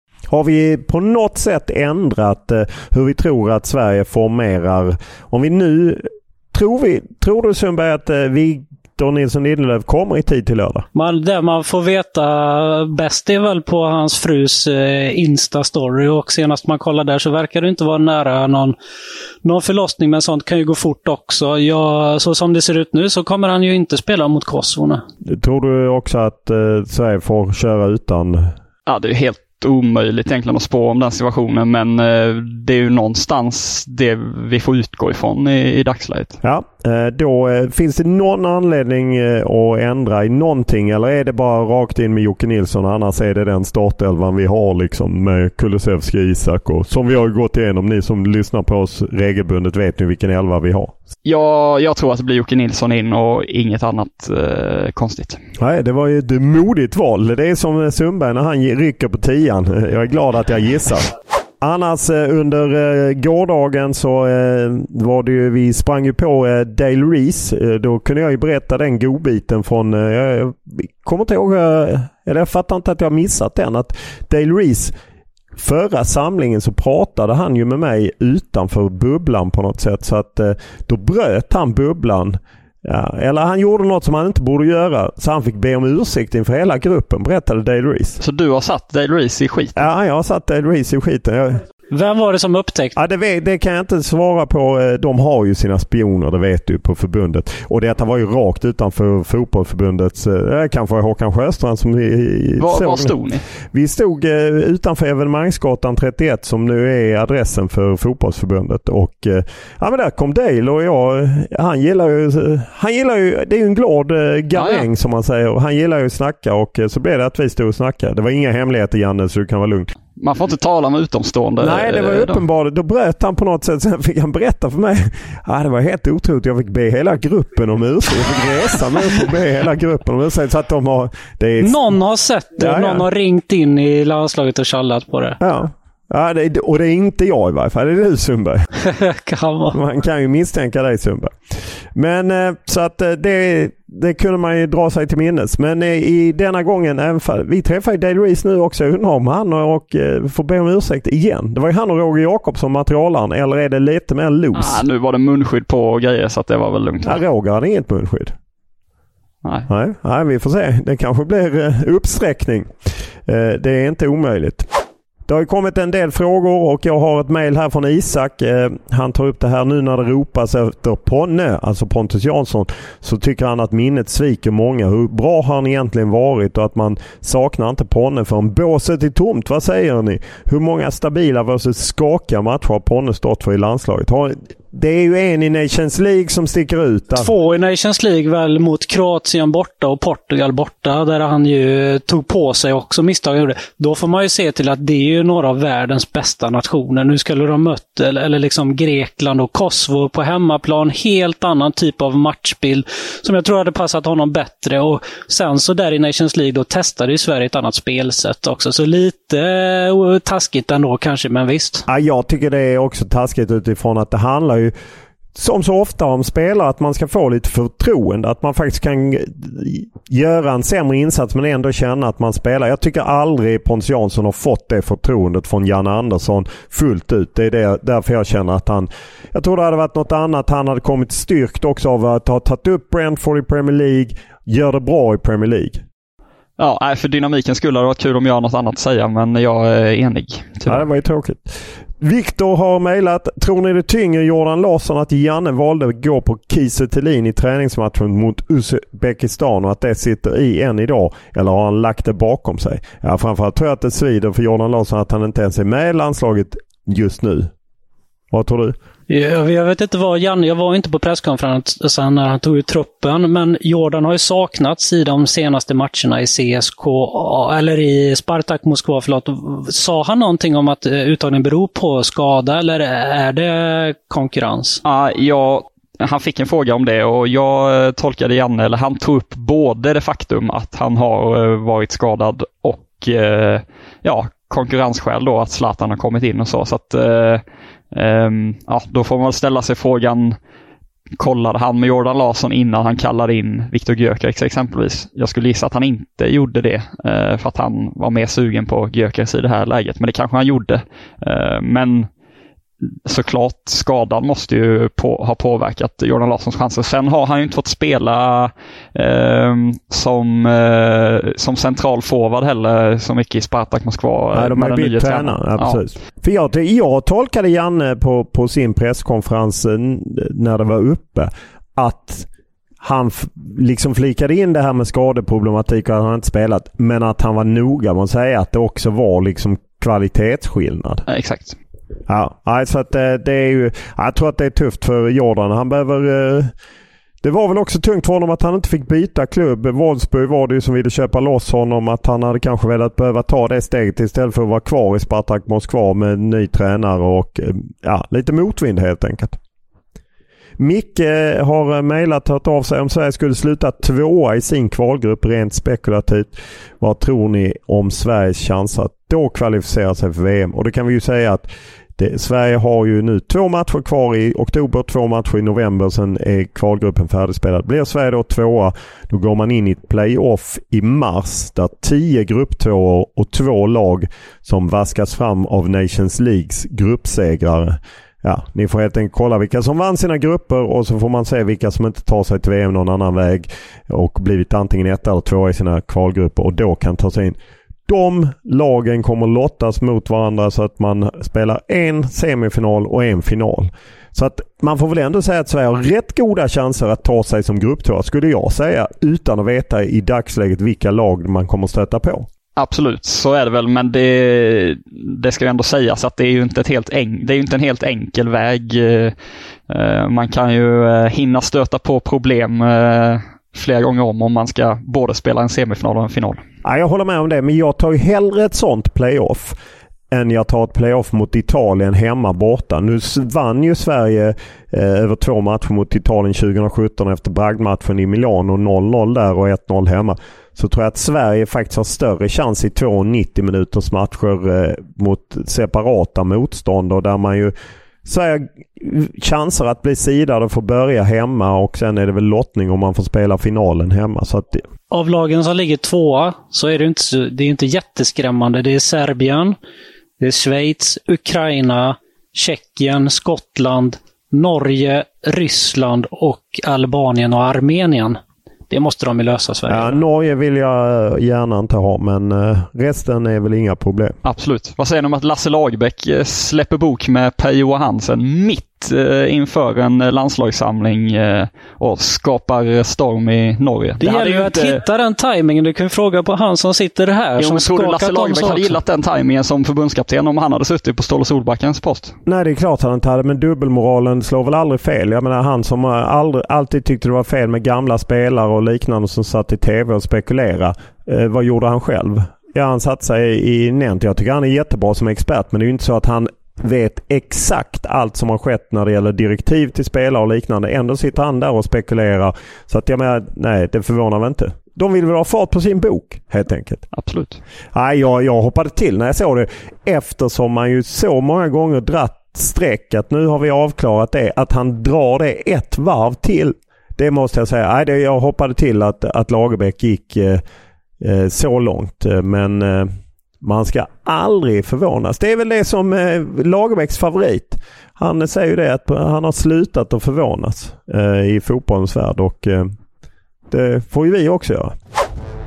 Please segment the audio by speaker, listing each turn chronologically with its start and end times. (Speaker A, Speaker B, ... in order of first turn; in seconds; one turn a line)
Speaker A: 0.3-10.8
Speaker B: 10.9-18.8
Speaker B: 19.4-25.0
Speaker A: 25.2-28.5
Speaker C: 28.9-36.4
Speaker A: 36.4-50.9
Speaker C: 51.3-55.4
Speaker A: 55.6-74.9
Speaker A: 75.6-88.2
Speaker C: 88.2-89.8
Speaker A: 89.8-91.6
Speaker B: 91.9-93.0
Speaker A: 93.0-103.2
Speaker C: 102.6-103.4
Speaker A: 103.7-119.9
Speaker C: 114.5-114.9
Speaker C: 120.2-122.4
Speaker A: 121.6-132.0
Speaker B: 131.6-135.4
Speaker A: 132.6-133.1
Speaker A: 135.4-138.7
Speaker B: 138.8-139.8
Speaker A: 139.7-141.4
Speaker A: 141.9-154.8
Speaker C: 154.6-157.2
Speaker A: 157.1-158.3
Speaker A: 159.7-162.7
Speaker A: 163.3-164.7
Speaker A: 165.3-187.3
Speaker B: 187.2-211.9
Speaker A: 211.9-214.7
Speaker A: 215.3-235.8
Speaker C: 236.6-240.8
Speaker A: 240.7-257.5
Speaker A: 258.3-258.8
Speaker B: 259.1-274.8
Speaker C: 274.8-290.4
Speaker C: 291.2-302.1
Speaker C: 303.1-315.8
Speaker A: 314.3-322.3
Speaker A: 322.8-331.0
Speaker C: 331.1-331.6
Speaker A: 332.1-336.5
Speaker A: 337.2-349.4
Speaker A: 350.6-402.3
Speaker C: 402.6-409.1
Speaker C: 409.7-416.4
Speaker A: 416.6-419.6
Speaker A: 420.1-437.5
Speaker A: 438.1-444.6
Speaker B: 444.9-449.6
Speaker B: 450.2-460.0
Speaker A: 459.7-464.2
Speaker C: 464.2-474.8
Speaker B: 474.0-478.8
Speaker C: 477.4-482.1
Speaker A: 482.3-506.8
Speaker C: 506.9-507.4
Speaker A: 507.7-520.4
Speaker A: 521.0-532.7
Speaker A: 533.5-534.8